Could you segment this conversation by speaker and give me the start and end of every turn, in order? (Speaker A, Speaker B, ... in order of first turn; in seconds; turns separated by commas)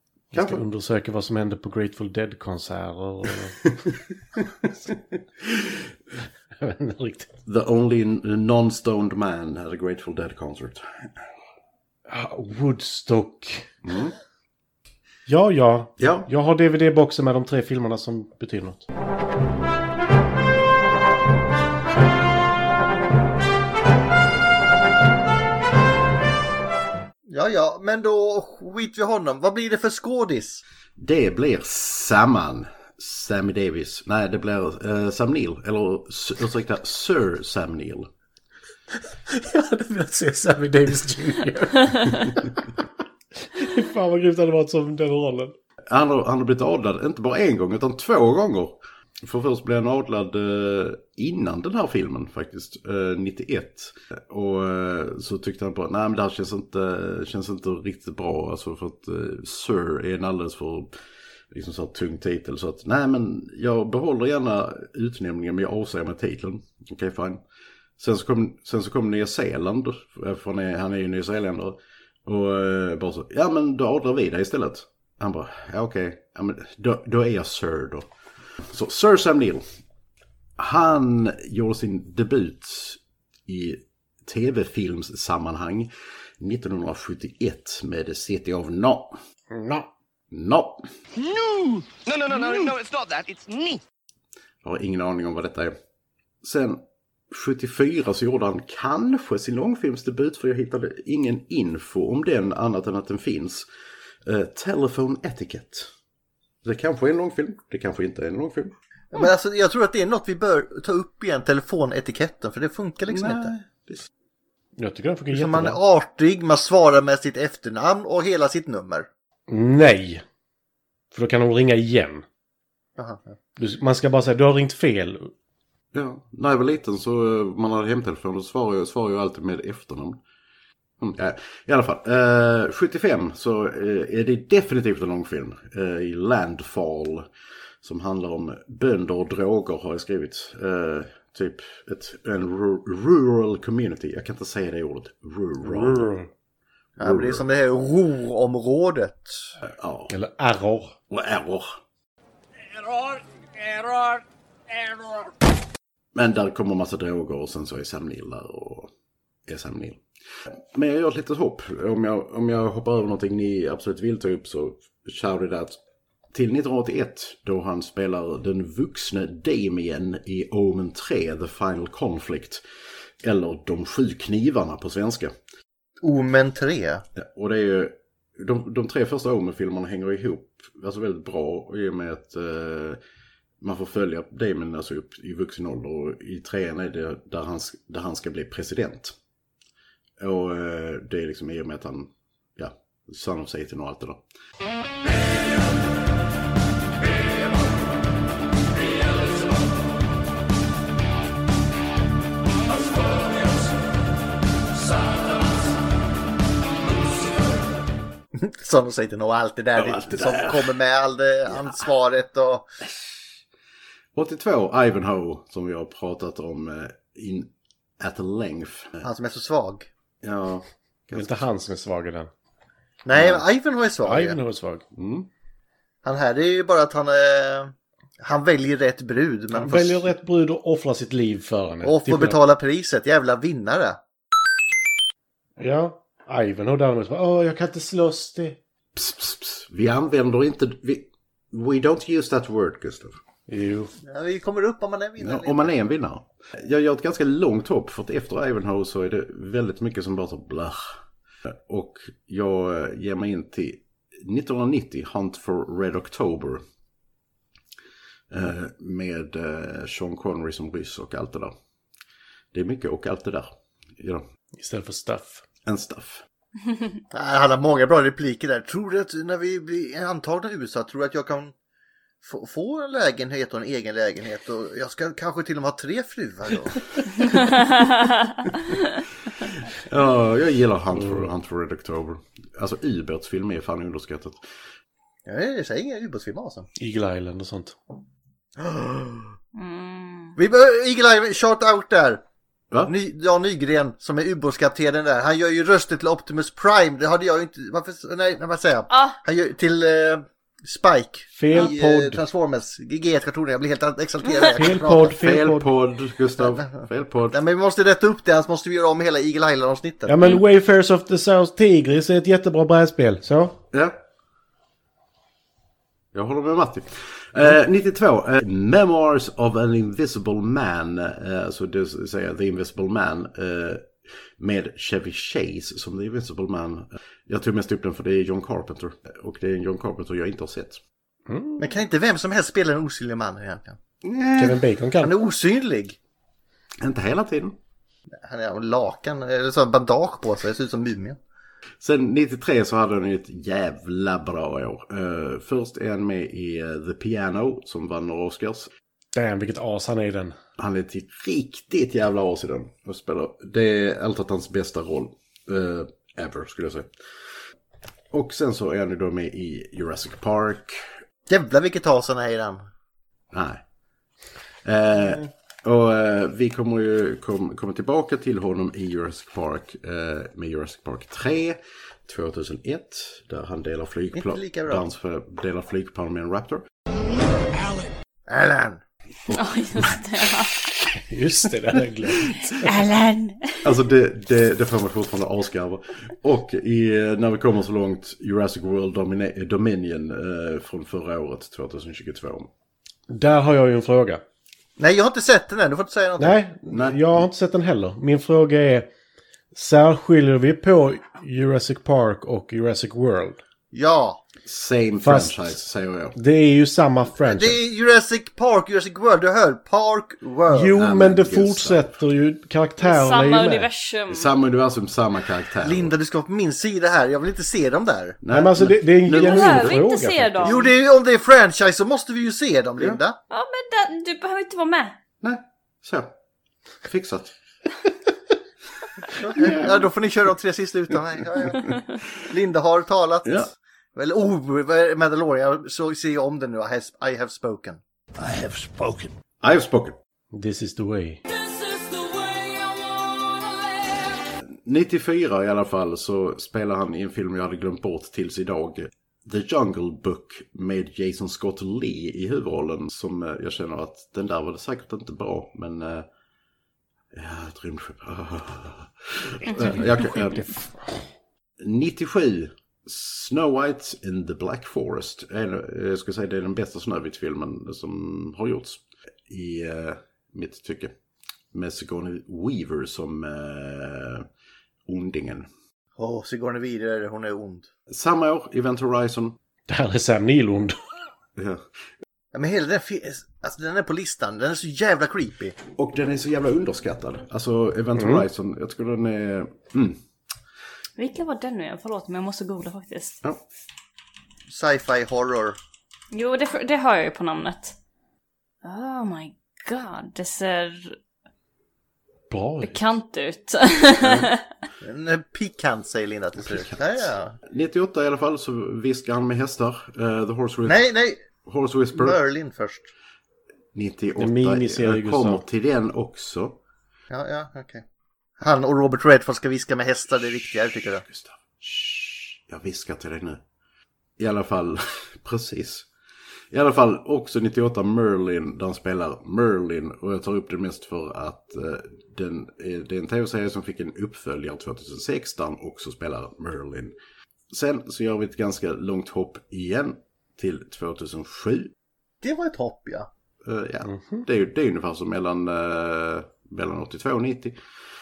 Speaker A: 0.3-3.6, Speaker B: 0.3-0.6, Speaker B: 5.5-5.8, Speaker A: 6.6-7.3, Speaker B: 7.5-11.1, Speaker A: 12.1-13.7, Speaker B: 13.8-14.2, Speaker A: 15.3-18.8, Speaker B: 16.0-16.3, Speaker C: 27.3-30.6, Speaker B: 31.0-38.1, Speaker A: 39.3-42.6, Speaker A: 43.5-45.5, Speaker B: 45.9-60.9, Speaker B: 61.5-67.4, Speaker B: 68.0-78.1, Speaker B: 78.7-79.6, Speaker B: 80.6-85.9, Speaker B: 86.4-89.2, Speaker A: 89.5-89.9, Speaker B: 90.3-90.8, Speaker D: 91.2-93.8, Speaker B: 94.6-95.8, Speaker B: 96.4-103.7, Speaker B: 104.3-105.9, Speaker B: 106.6-108.8, Speaker C: 109.1-113.5, Speaker B: 113.1-114.1, Speaker A: 114.8-115.8, Speaker C: 115.3-119.1, Speaker A: 119.5-120.2, Speaker A: 121.1-122.2, Speaker C: 123.0-123.4, Speaker A: 123.6-125.3, Speaker B: 125.9-130.2, Speaker B: 131.0-137.3, Speaker B: 137.8-146.2, Speaker A: 145.6-146.3, Speaker C: 147.0-149.5, Speaker B: 147.0-147.4, Speaker B: 149.7-150.1, Speaker A: 150.1-150.9, Speaker B: 151.1-151.8, Speaker B: 156.2-158.9, Speaker B: 159.5-160.0, Speaker B: 160.7-165.8, Speaker B: 166.3-172.6, Speaker B: 173.2-175.3, Speaker C: 176.0-177.0, Speaker B: 177.2-183.0, Speaker B: 183.6-189.2, Speaker B: 190.2-194.2, Speaker C: 208.4-212.7, Speaker B: 209.8-210.8, Speaker B: 214.2-219.1, Speaker C: 219.0-219.9, Speaker B: 220.2-221.4, Speaker A: 221.1-222.3, Speaker C: 223.1-224.4, Speaker B: 223.1-223.4, Speaker A: 224.0-224.8, Speaker B: 224.9-225.3, Speaker C: 226.0-230.1, Speaker A: 229.5-232.4, Speaker C: 231.8-234.0, Speaker A: 235.6-238.6, Speaker B: 239.0-243.2, Speaker A: 243.5-243.9, Speaker C: 244.0-245.7, Speaker B: 245.2-250.9, Speaker B: 251.5-256.6, Speaker B: 258.3-261.5, Speaker B: 262.5-264.2, Speaker A: 264.6-265.4, Speaker B: 265.6-266.2, Speaker C: 267.1-271.5, Speaker C: 272.2-277.4, Speaker B: 279.5-284.4, Speaker A: 280.9-281.3, Speaker C: 285.3-286.7, Speaker A: 286.8-287.8, Speaker C: 288.6-289.3, Speaker E: 289.6-290.4, Speaker C: 290.4-292.2, Speaker C: 292.9-305.2, Speaker E: 298.9-299.2, Speaker A: 301.4-302.2, Speaker A: 304.5-305.7, Speaker B: 305.1-307.4, Speaker C: 306.4-310.2, Speaker A: 310.1-313.6, Speaker B: 316.1-330.8, Speaker A: 331.3-331.7, Speaker C: 331.6-333.8, Speaker B: 334.0-334.6, Speaker A: 334.4-335.1, Speaker C: 335.0-336.0, Speaker B: 336.8-337.6, Speaker C: 338.2-341.2, Speaker B: 341.8-348.7, Speaker A: 349.1-350.4, Speaker B: 350.6-356.9, Speaker B: 358.1-360.9, Speaker C: 361.3-362.6, Speaker B: 363.3-363.6, Speaker B: 364.6-376.6, Speaker C: 374.1-374.9, Speaker C: 378.3-378.8, Speaker B: 379.3-379.9, Speaker E: 379.3-380.5, Speaker A: 381.1-382.8, Speaker E: 382.4-383.6, Speaker B: 383.6-392.5, Speaker A: 393.1-394.2, Speaker C: 394.8-396.4, Speaker A: 396.2-398.9, Speaker B: 396.7-397.2, Speaker A: 399.5-403.4, Speaker C: 403.7-404.2, Speaker B: 404.5-406.2, Speaker A: 405.0-405.5, Speaker A: 406.2-407.6, Speaker C: 407.2-410.8, Speaker A: 410.5-413.7, Speaker B: 410.8-411.9, Speaker E: 412.8-414.3, Speaker B: 414.1-415.9, Speaker C: 415.6-418.2, Speaker B: 418.2-419.8, Speaker A: 418.3-420.6, Speaker E: 419.1-420.7, Speaker C: 420.4-423.2, Speaker E: 423.3-425.0, Speaker B: 425.2-426.1, Speaker B: 426.9-427.3, Speaker C: 429.2-437.8, Speaker A: 429.3-429.9, Speaker B: 433.2-433.5, Speaker B: 438.2-440.0, Speaker A: 440.3-441.2, Speaker E: 441.3-444.1, Speaker B: 444.5-456.1, Speaker B: 457.1-460.5, Speaker B: 461.6-470.9, Speaker B: 471.5-474.3, Speaker B: 474.9-475.5, Speaker C: 476.0-477.7, Speaker B: 477.9-479.4, Speaker A: 479.7-480.8, Speaker B: 481.4-481.6, Speaker C: 482.3-485.6, Speaker B: 485.8-490.0, Speaker A: 488.0-488.2, Speaker E: 491.0-493.2, Speaker C: 494.5-495.6, Speaker E: 496.1-497.8, Speaker E: 498.6-501.0, Speaker A: 502.3-502.8, Speaker E: 502.6-504.4, Speaker B: 504.0-504.3, Speaker C: 504.8-507.4, Speaker B: 506.4-510.9, Speaker C: 510.7-511.2, Speaker B: 511.4-512.2, Speaker C: 511.9-512.9, Speaker B: 513.8-516.6, Speaker A: 514.2-515.4, Speaker C: 517.1-517.8, Speaker C: 518.4-521.0, Speaker B: 521.1-523.4, Speaker B: 524.2-525.9, Speaker B: 526.5-536.9, Speaker B: 537.5-541.7, Speaker C: 542.2-543.1, Speaker B: 543.5-547.6, Speaker A: 543.9-544.2